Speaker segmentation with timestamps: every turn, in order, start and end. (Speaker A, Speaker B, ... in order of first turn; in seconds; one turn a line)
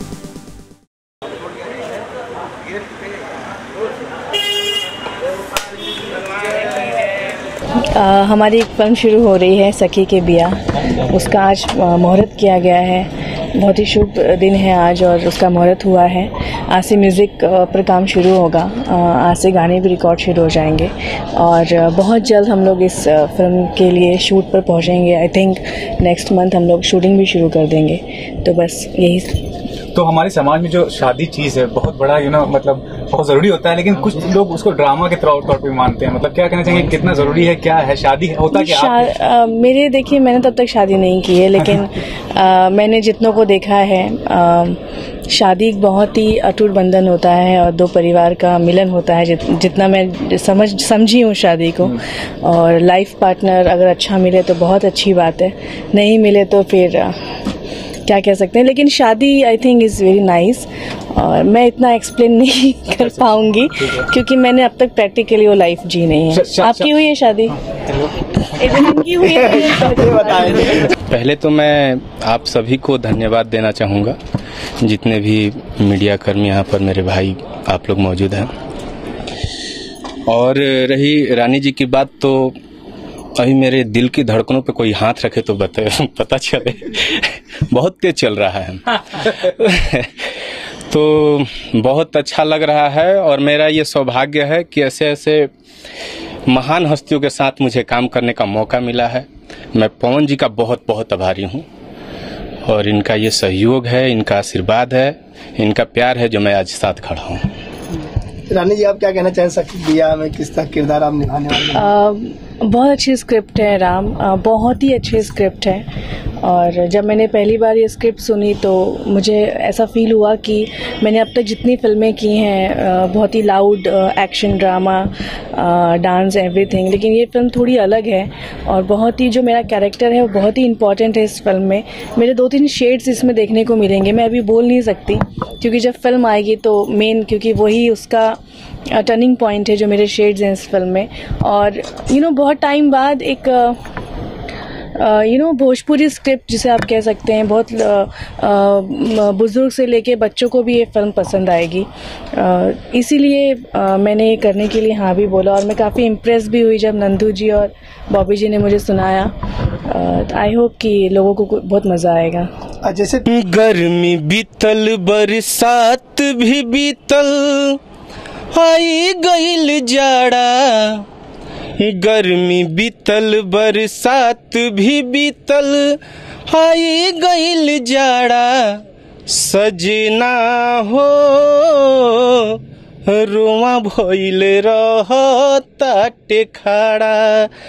Speaker A: 7.8-29.4
Speaker B: 29.9-39.1
Speaker A: 38.5-57.3
Speaker A: 58.0-67.6
Speaker B: 66.3-66.9
Speaker A: 68.4-70.8
Speaker C: 69.2-70.9
Speaker D: 70.9-74.2
Speaker D: 74.8-78.5
Speaker D: 80.3-82.5
Speaker D: 83.4-95.5
Speaker D: 96.5-101.6
Speaker D: 102.6-107.4
Speaker C: 108.5-111.9
Speaker A: 111.7-115.9
Speaker A: 116.4-138.4
Speaker A: 138.9-143.8
Speaker A: 144.9-162.5
Speaker C: 162.8-163.2
Speaker D: 163.2-167.8
Speaker D: 168.5-171.0
Speaker D: 171.8-187.5